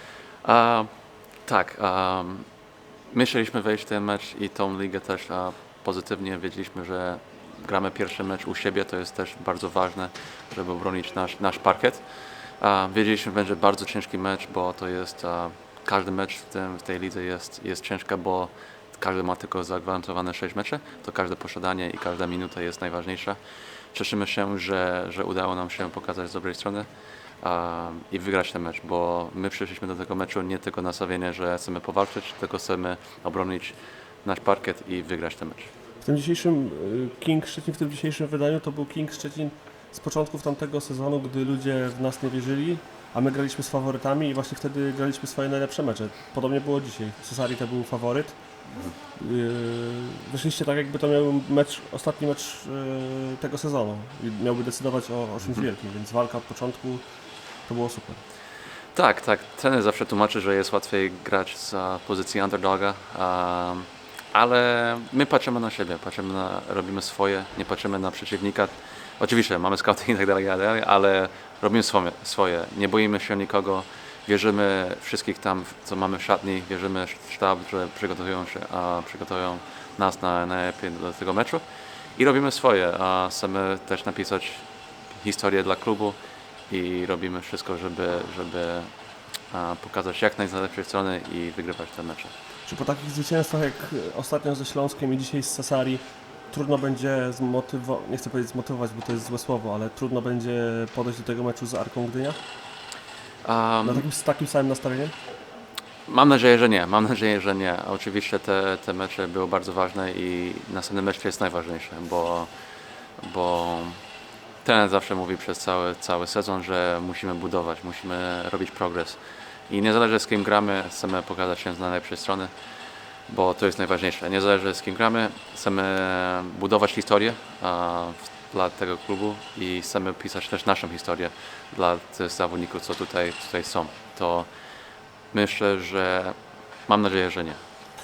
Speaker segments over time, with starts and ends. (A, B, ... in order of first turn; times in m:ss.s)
0:00.4-0:02.5 A
0:03.1-0:23.4 A
0:23.9-0:35.7 A
0:36.0-0:57.0 B
0:57.6-0:58.2 B
0:58.9-1:21.6 A
1:22.1-1:26.1 A
1:26.7-1:28.9 A
1:29.4-1:32.3 A
1:32.6-1:42.4 B
1:43.4-1:44.0 A
1:43.8-1:45.1 B
1:46.1-1:52.5 A
1:53.2-1:54.0 A
1:54.6-2:02.5 A
2:03.3-2:14.5 A
2:15.3-2:17.6 A